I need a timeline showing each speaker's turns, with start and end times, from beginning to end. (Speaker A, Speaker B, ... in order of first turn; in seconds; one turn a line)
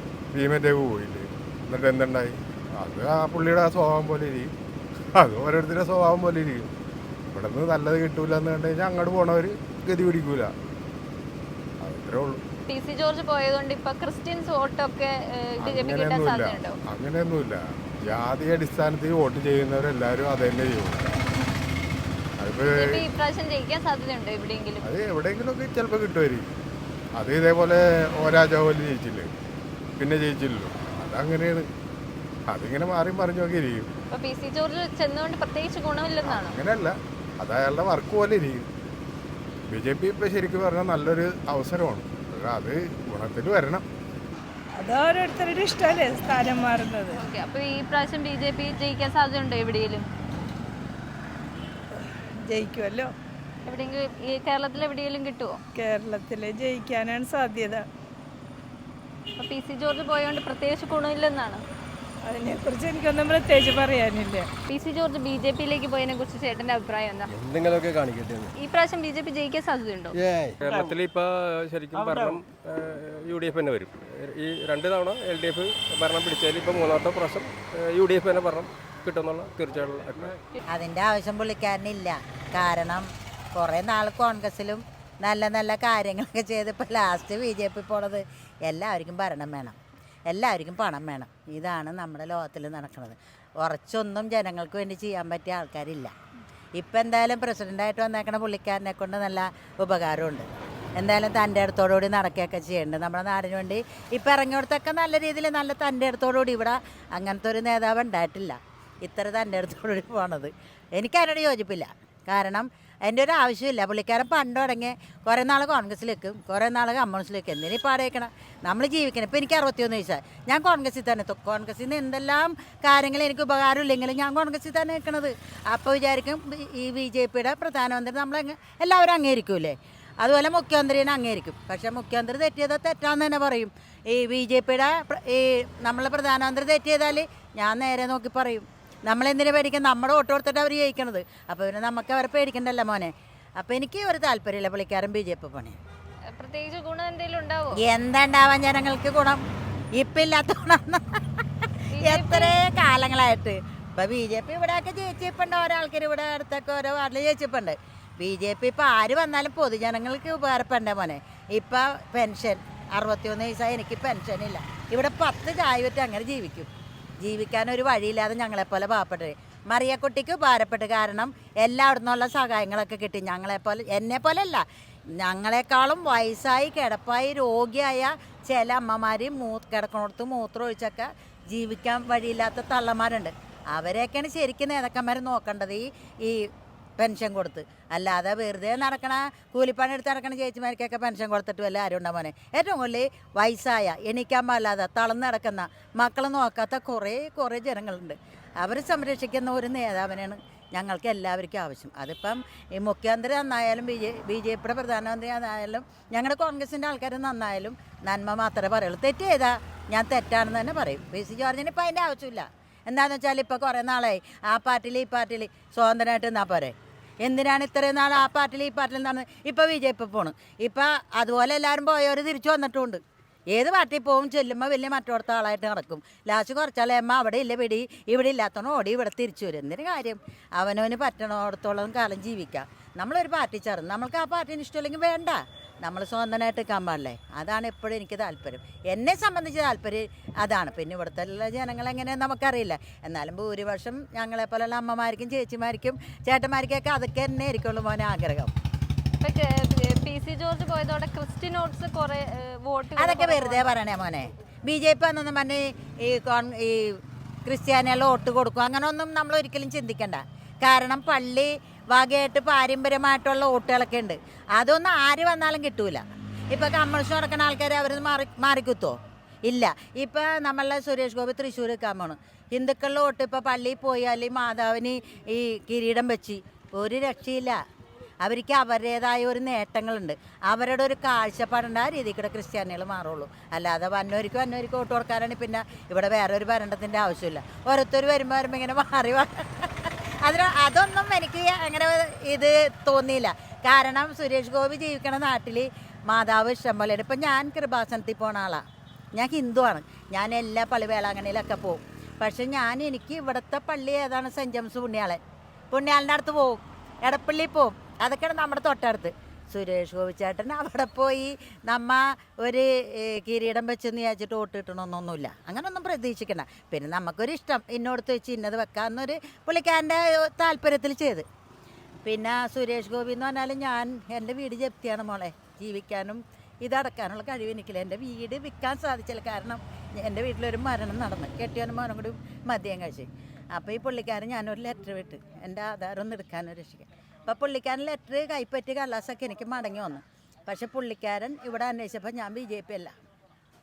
Speaker A: 0.3-4.5
Speaker A: 5.2-6.7
Speaker A: 7.3-10.5
Speaker A: 11.8-12.4
Speaker B: 12.7-16.8
Speaker A: 15.6-21.1
Speaker A: 22.4-23.1
Speaker B: 22.6-24.8
Speaker A: 24.8-26.5
Speaker A: 27.2-29.3
Speaker A: 30.0-31.7
Speaker A: 32.5-33.9
Speaker B: 34.1-36.6
Speaker A: 36.2-38.6
Speaker A: 39.7-43.8
Speaker C: 44.8-47.2
Speaker B: 47.1-50.1
Speaker C: 52.5-53.1
Speaker B: 53.6-55.6
Speaker C: 55.7-57.8
Speaker B: 59.4-61.6
Speaker C: 62.2-64.5
Speaker B: 64.7-67.3
Speaker D: 67.3-68.5
Speaker B: 68.6-70.2
Speaker D: 70.2-80.4
Speaker E: 80.7-89.8
Speaker E: 90.3-96.1
Speaker E: 96.8-145.8
Speaker B: 146.3-147.8
Speaker E: 147.7-149.4
Speaker E: 149.9-151.2
Speaker B: 151.9-152.6
Speaker E: 152.0-166.7
Speaker E: 167.2-174.6
Speaker E: 175.2-186.5
Speaker E: 187.0-223.0
Speaker E: 223.5-248.5
Speaker B: 249.2-253.8
Speaker E: 252.9-268.9
Speaker E: 269.5-277.6
Speaker E: 278.2-298.6
Speaker E: 299.1-305.2
Speaker E: 305.7-321.2
Speaker E: 322.0-342.9